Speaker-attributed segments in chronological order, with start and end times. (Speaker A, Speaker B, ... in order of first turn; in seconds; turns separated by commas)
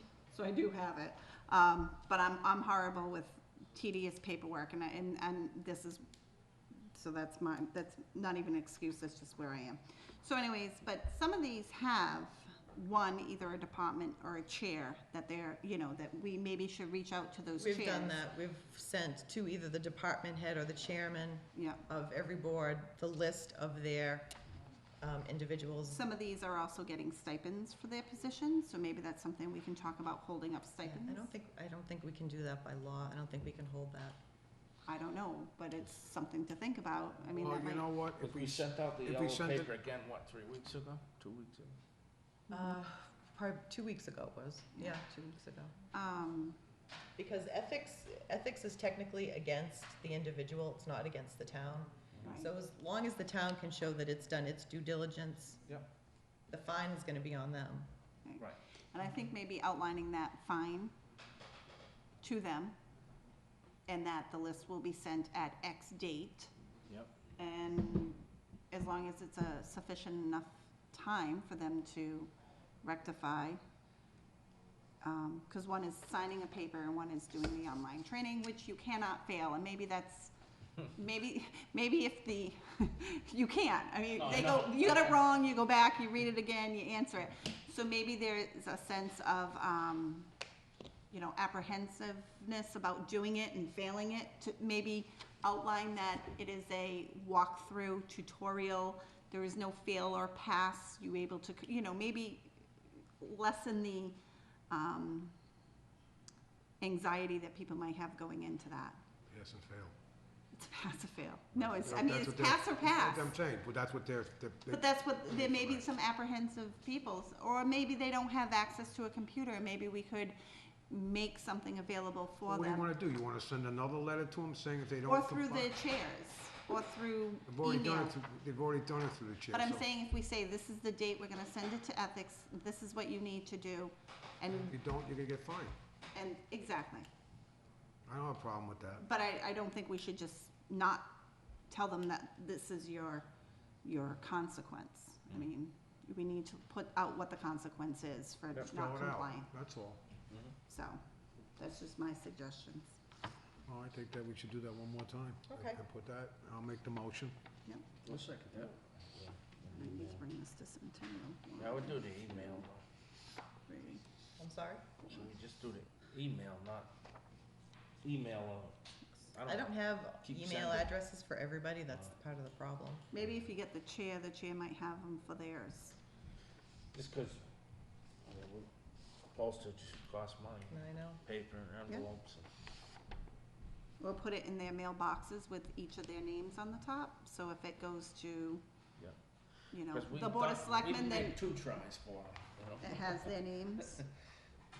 Speaker A: 0.3-6.0, Speaker A: 6.9-18.2, Speaker B: 17.6-24.3, Speaker A: 21.5-21.8, Speaker B: 25.0-26.0, Speaker A: 25.9-31.3, Speaker B: 30.8-34.2, Speaker A: 34.9-37.9, Speaker C: 37.3-39.7, Speaker D: 38.2-41.8, Speaker B: 42.5-45.7, Speaker A: 45.9-46.6, Speaker B: 47.1-55.6, Speaker A: 52.2-52.5, Speaker B: 56.5-57.9, Speaker A: 58.2-60.9, Speaker A: 62.2-62.8, Speaker A: 63.9-66.5, Speaker A: 67.4-73.6, Speaker A: 75.0-80.3, Speaker A: 80.8-90.3, Speaker D: 84.2-85.2, Speaker A: 91.1-102.5, Speaker A: 103.2-104.2, Speaker A: 104.7-105.3, Speaker A: 106.8-109.0, Speaker C: 109.3-109.9, Speaker A: 110.5-113.3, Speaker C: 111.6-115.8, Speaker A: 114.7-120.3, Speaker A: 120.9-122.9, Speaker C: 122.5-125.7, Speaker A: 125.0-128.1, Speaker C: 127.5-129.8, Speaker A: 129.5-134.8, Speaker C: 134.6-135.8, Speaker A: 136.1-137.1, Speaker C: 138.1-139.0, Speaker A: 139.0-141.1, Speaker A: 141.7-143.3, Speaker A: 143.8-149.5, Speaker C: 148.5-150.0, Speaker A: 150.7-151.0, Speaker A: 151.6-153.0, Speaker C: 153.7-157.3, Speaker B: 155.5-155.8, Speaker D: 158.0-160.2, Speaker A: 159.7-162.6, Speaker D: 161.6-162.8, Speaker A: 163.7-164.0, Speaker B: 164.4-164.9, Speaker D: 165.1-166.9, Speaker D: 168.0-168.8, Speaker D: 169.3-170.9, Speaker B: 169.4-173.1, Speaker A: 173.1-176.0, Speaker D: 176.9-177.4, Speaker D: 178.2-178.7, Speaker D: 179.3-182.5, Speaker B: 180.7-181.2, Speaker A: 184.0-188.6, Speaker A: 189.7-191.4, Speaker D: 189.9-193.3, Speaker A: 192.8-194.0